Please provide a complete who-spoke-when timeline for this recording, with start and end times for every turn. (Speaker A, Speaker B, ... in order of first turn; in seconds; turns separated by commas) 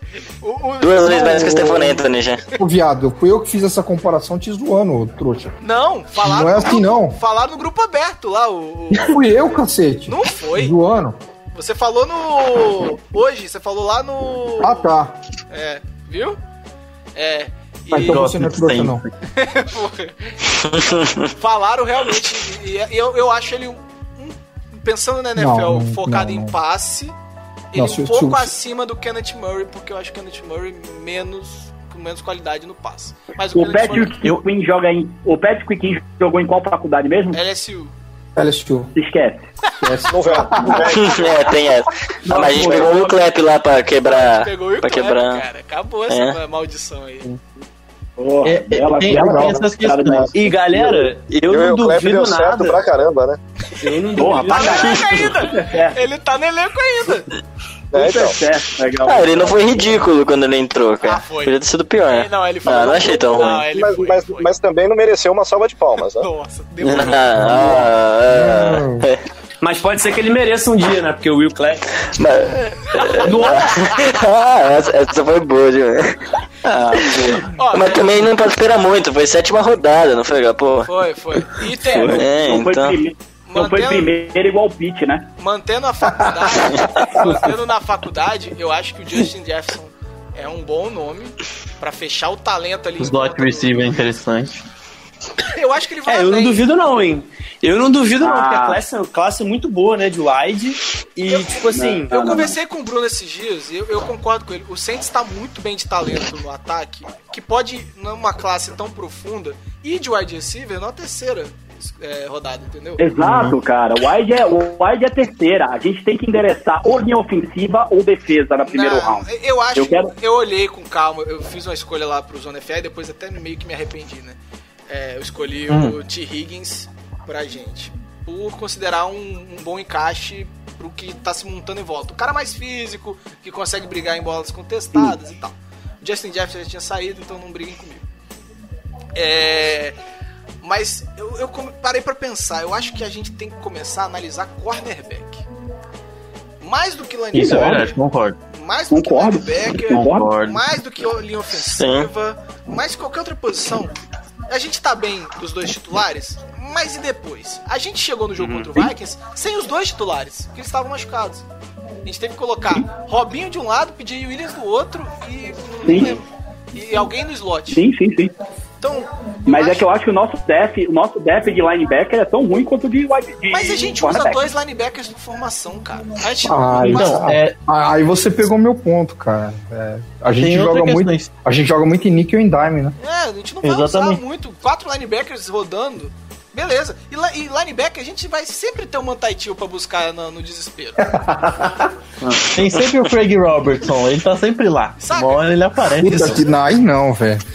Speaker A: 0.4-1.8, Speaker B: 0.8-2.4, Speaker C: 1.0-2.0, Speaker C: 2.6-5.5, Speaker A: 5.6-9.3, Speaker C: 6.1-7.2, Speaker C: 9.0-11.2, Speaker A: 10.1-10.8, Speaker A: 11.5-14.9, Speaker C: 14.6-15.2, Speaker A: 15.5-16.4, Speaker A: 17.1-18.4, Speaker C: 17.9-19.0, Speaker D: 17.9-19.1, Speaker A: 19.2-27.1, Speaker B: 20.8-21.1, Speaker C: 25.4-26.5, Speaker A: 27.7-34.1, Speaker C: 27.7-28.5, Speaker E: 33.5-37.4, Speaker A: 37.3-37.9, Speaker C: 38.4-38.9, Speaker E: 38.9-39.5, Speaker C: 39.8-40.8, Speaker F: 40.1-41.2, Speaker E: 40.6-41.0, Speaker B: 40.9-45.4, Speaker E: 42.2-43.2, Speaker C: 42.3-42.8, Speaker A: 44.0-47.3, Speaker B: 46.1-46.4, Speaker E: 48.2-51.1, Speaker D: 48.4-50.3, Speaker G: 50.3-52.8, Speaker F: 51.5-53.4, Speaker G: 53.8-55.7, Speaker E: 54.1-55.9, Speaker A: 54.5-57.3, Speaker F: 57.9-58.4, Speaker E: 57.9-60.0, Speaker B: 59.0-63.6, Speaker A: 61.0-64.5, Speaker F: 63.7-66.3, Speaker A: 66.2-67.8, Speaker D: 66.8-67.2, Speaker B: 66.9-69.2, Speaker C: 67.4-69.1, Speaker G: 69.6-72.0, Speaker B: 72.2-80.9, Speaker A: 73.0-74.1, Speaker E: 73.3-73.5, Speaker A: 77.5-78.3, Speaker A: 80.8-82.3, Speaker G: 81.8-82.1, Speaker B: 82.1-83.0, Speaker E: 82.1-85.3, Speaker A: 83.5-84.1, Speaker A: 85.4-93.9, Speaker C: 86.9-87.2, Speaker D: 93.0-94.6, Speaker A: 95.5-96.7, Speaker G: 96.1-102.2, Speaker E: 98.2-98.8, Speaker A: 101.3-113.0, Speaker E: 101.7-102.5, Speaker E: 113.0-120.1, Speaker D: 113.2-113.5, Speaker A: 118.7-138.1, Speaker D: 125.7-126.0, Speaker A: 139.2-139.9, Speaker A: 140.6-145.4, Speaker A: 146.6-148.0, Speaker D: 147.3-148.4, Speaker E: 147.3-147.8, Speaker A: 148.5-161.4, Speaker E: 148.9-150.3, Speaker D: 149.9-150.6, Speaker B: 151.8-152.1, Speaker G: 158.4-158.7, Speaker A: 162.0-167.8, Speaker E: 165.8-166.2, Speaker E: 167.7-168.3, Speaker A: 168.8-169.9, Speaker E: 169.5-174.5, Speaker A: 173.5-177.2, Speaker C: 176.4-182.9, Speaker D: 176.7-177.5, Speaker D: 180.3-181.3, Speaker A: 183.0-191.2, Speaker D: 183.6-184.2, Speaker C: 191.1-191.7, Speaker D: 192.5-196.5, Speaker A: 195.0-195.5, Speaker C: 196.0-197.4